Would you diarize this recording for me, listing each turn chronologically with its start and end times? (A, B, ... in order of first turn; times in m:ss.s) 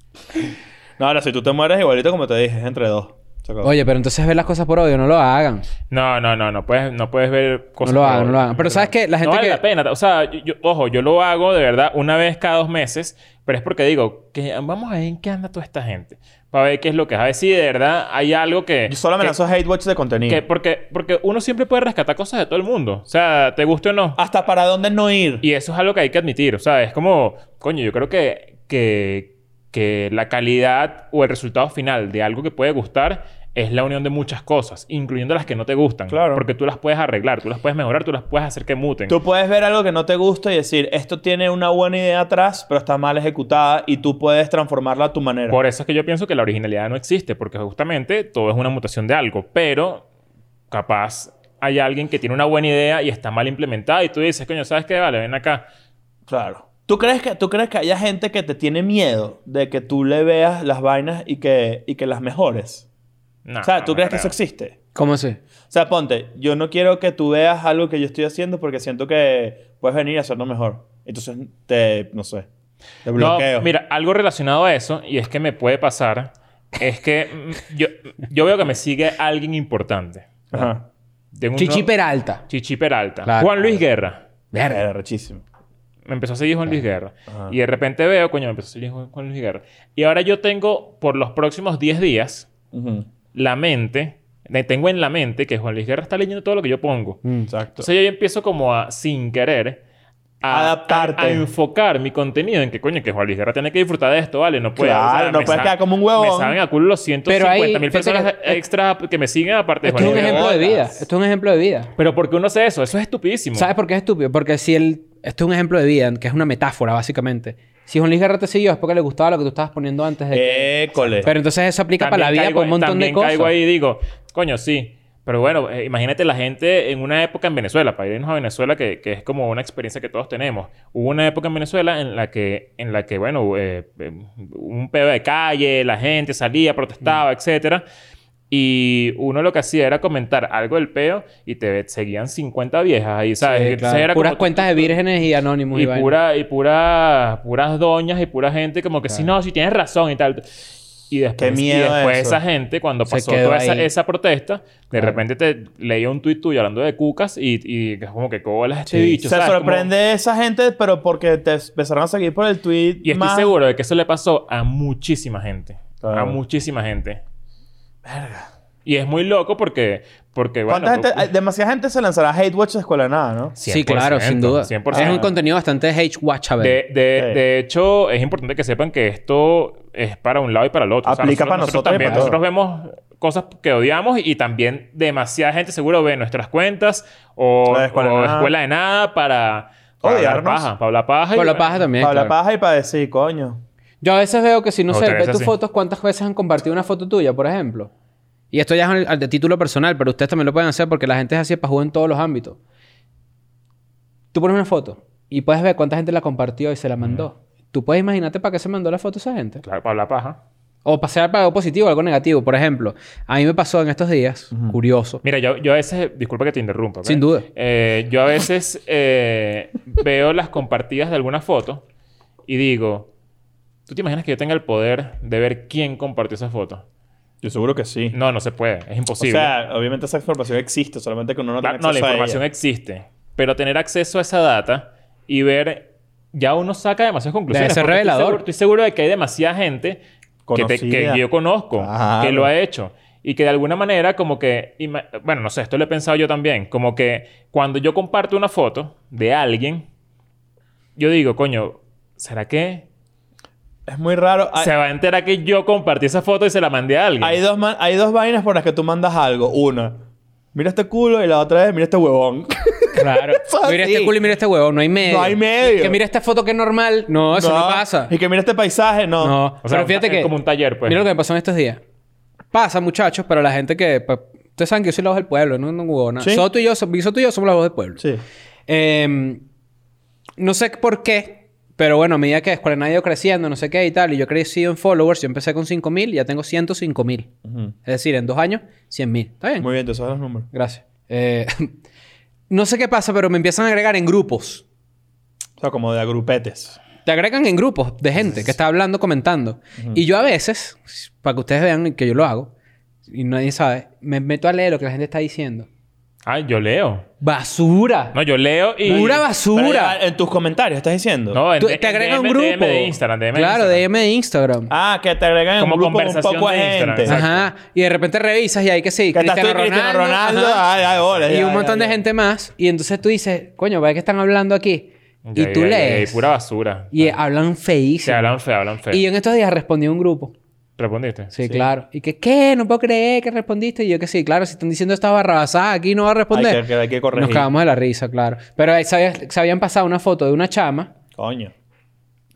0:01.0-0:03.7 A
0:03.6-0:05.6 B
0:05.9-0:19.4 C
0:07.8-0:09.6 B
0:18.9-0:20.4 A
0:20.3-0:24.2 C
0:24.2-0:25.4 A
0:25.4-0:39.2 C
0:36.1-0:36.4 A
0:39.1-0:45.6 A
0:45.5-0:50.0 C
0:50.7-0:55.6 C
0:56.3-1:02.8 A
1:03.4-1:04.3 C
1:03.6-1:04.8 A
1:04.9-1:05.4 B
1:05.7-1:12.5 A
1:13.0-1:13.7 A
1:13.1-1:20.5 C
1:20.5-1:20.8 A
1:21.3-1:21.9 C
1:21.6-1:22.4 B
1:22.5-1:24.2 C
1:23.2-1:23.8 B
1:24.5-1:24.8 B
1:24.7-1:25.4 A
1:26.0-1:32.5 C
1:32.7-1:33.1 A
1:33.3-1:37.2 C
1:37.5-1:37.9 A
1:37.8-1:39.8 C
1:40.4-1:50.5 C
1:40.5-1:41.4 A
1:44.8-1:46.6 A
1:47.3-1:48.6 B
1:49.8-1:51.9 B
1:49.9-1:50.9 A
1:52.0-1:53.7 C
1:53.6-2:03.5 B
2:00.3-2:01.3 A
2:02.0-2:17.8 C
2:18.5-2:25.0 C
2:23.4-2:26.1 B
2:25.7-2:39.9 C
2:31.4-2:32.4 A
2:33.1-2:33.9 B
2:38.9-2:39.2 B
2:39.2-2:43.5 A
2:43.0-2:47.2 C
2:46.0-2:46.4 A
2:48.0-2:48.5 A
2:48.8-2:51.3 C
2:50.7-2:53.5 A
2:53.6-2:55.3 C
2:53.7-2:56.8 B
2:54.9-2:55.3 A
2:56.6-3:11.9 C
3:01.0-3:02.4 A
3:02.0-3:02.3 B
3:07.7-3:08.5 A
3:10.0-3:10.7 A
3:11.3-3:12.3 B
3:12.0-3:13.6 A
3:14.0-3:17.9 B
3:14.9-3:15.5 C
3:18.5-3:22.6 B
3:24.3-3:29.6 B
3:29.6-3:30.4 C
3:30.8-3:35.2 B
3:35.2-3:41.8 C
3:37.0-3:37.4 B
3:42.5-3:43.1 C
3:43.9-3:46.8 C
3:47.4-3:48.2 A
3:48.1-3:49.5 C
3:49.2-3:52.4 A
3:51.6-4:00.0 C
3:57.5-3:58.4 B
4:00.5-4:01.2 A
4:00.5-4:09.8 C
4:01.8-4:02.5 A
4:11.0-4:12.8 C
4:13.9-4:14.7 A
4:14.6-4:17.4 C
4:17.2-4:20.0 A
4:20.5-4:24.2 A
4:22.9-4:28.1 B
4:25.0-4:26.0 A
4:27.3-4:29.4 A
4:29.2-4:30.3 B
4:29.6-4:31.0 C
4:30.8-4:31.8 B
4:32.5-4:38.0 B
4:36.2-4:36.4 A
4:38.7-4:39.4 B
4:40.4-4:47.3 B
4:47.4-4:47.7 A
4:47.8-4:49.7 B
4:49.6-4:50.5 A
4:50.5-4:51.7 B
4:52.5-4:54.6 B
4:55.6-4:56.8 A
4:57.0-5:02.5 B
4:59.8-5:00.0 A
5:03.1-5:05.7 B
5:06.2-5:07.1 C
5:07.2-5:08.2 B
5:08.1-5:09.2 C
5:08.8-5:10.0 B
5:08.8-5:11.4 A
5:11.3-5:13.8 C
5:11.6-5:14.7 B
5:14.7-5:17.2 A
5:15.6-5:17.5 C
5:17.0-5:20.6 B
5:19.1-5:22.0 A
5:21.3-5:26.3 B
5:25.2-5:27.2 C
5:26.9-5:28.3 B
5:28.0-5:29.0 C
5:28.9-5:30.3 B
5:30.8-5:31.3 C
5:31.3-5:40.9 B
5:36.3-5:37.5 A
5:41.2-5:41.5 A